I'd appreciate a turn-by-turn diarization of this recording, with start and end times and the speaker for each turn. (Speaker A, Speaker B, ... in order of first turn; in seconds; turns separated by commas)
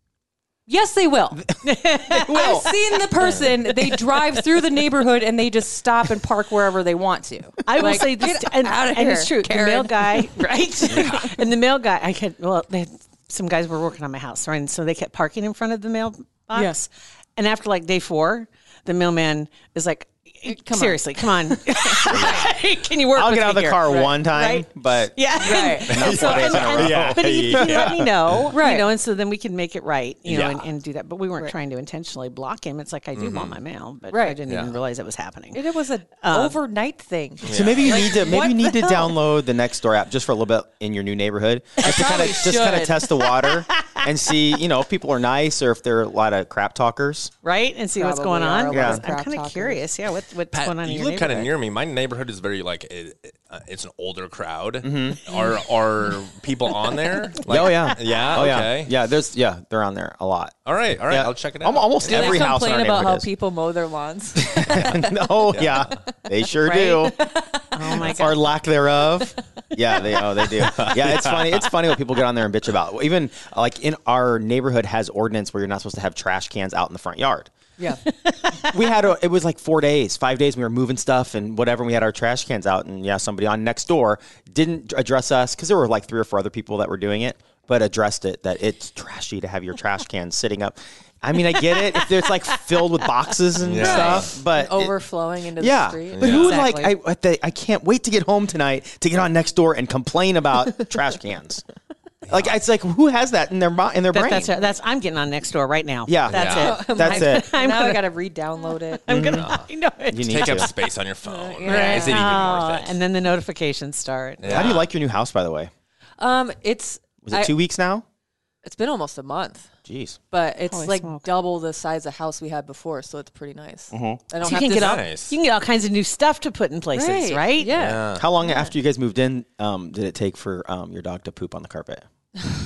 Speaker A: 0.7-1.5, Speaker B: 1.6-2.7, Speaker C: 2.1-2.7, Speaker A: 2.2-11.1, Speaker B: 7.7-35.6, Speaker D: 10.9-11.2, Speaker A: 16.5-16.8, Speaker A: 20.4-22.1, Speaker D: 22.1-22.5, Speaker C: 23.1-28.1, Speaker A: 23.9-24.2, Speaker A: 25.4-25.9, Speaker D: 25.5-28.4, Speaker A: 28.5-28.9, Speaker D: 30.2-30.6, Speaker D: 33.1-33.6, Speaker A: 34.1-34.4, Speaker D: 34.5-34.7, Speaker A: 35.5-39.1, Speaker B: 36.2-36.6, Speaker D: 37.4-38.3, Speaker C: 37.4-47.3, Speaker A: 41.8-43.1, Speaker B: 43.4-44.0, Speaker B: 47.4-51.5, Speaker A: 47.9-49.8, Speaker C: 48.7-49.0, Speaker D: 50.5-58.9, Speaker C: 54.8-55.2, Speaker C: 57.4-60.5, Speaker D: 60.6-62.5, Speaker C: 61.1-63.3, Speaker A: 62.0-65.1, Speaker C: 64.4-67.3, Speaker D: 64.7-64.9, Speaker D: 65.5-65.9, Speaker A: 66.5-68.3, Speaker B: 67.7-68.4, Speaker C: 68.0-77.5, Speaker D: 70.5-71.7, Speaker B: 78.0-78.7, Speaker C: 78.6-94.9, Speaker D: 93.6-94.3, Speaker A: 93.8-96.7, Speaker C: 95.6-101.6, Speaker D: 96.1-96.6, Speaker B: 96.4-96.9, Speaker D: 102.2-102.6, Speaker C: 102.3-104.5, Speaker B: 104.1-108.1, Speaker C: 106.1-107.5, Speaker D: 106.3-106.8, Speaker A: 106.5-109.1, Speaker B: 108.9-110.7, Speaker C: 109.1-109.5, Speaker D: 109.3-109.7, Speaker C: 110.1-110.7, Speaker D: 110.3-113.0, Speaker A: 111.3-112.2, Speaker B: 111.7-114.7, Speaker D: 114.4-114.9, Speaker C: 114.5-115.7, Speaker A: 116.2-117.5, Speaker C: 117.2-118.0, Speaker A: 118.6-119.7, Speaker C: 119.9-120.2, Speaker A: 120.3-125.0, Speaker B: 120.7-121.2, Speaker C: 123.9-124.2, Speaker B: 124.4-127.7, Speaker D: 124.5-125.3, Speaker A: 126.9-128.5, Speaker D: 127.7-128.2, Speaker C: 128.1-132.0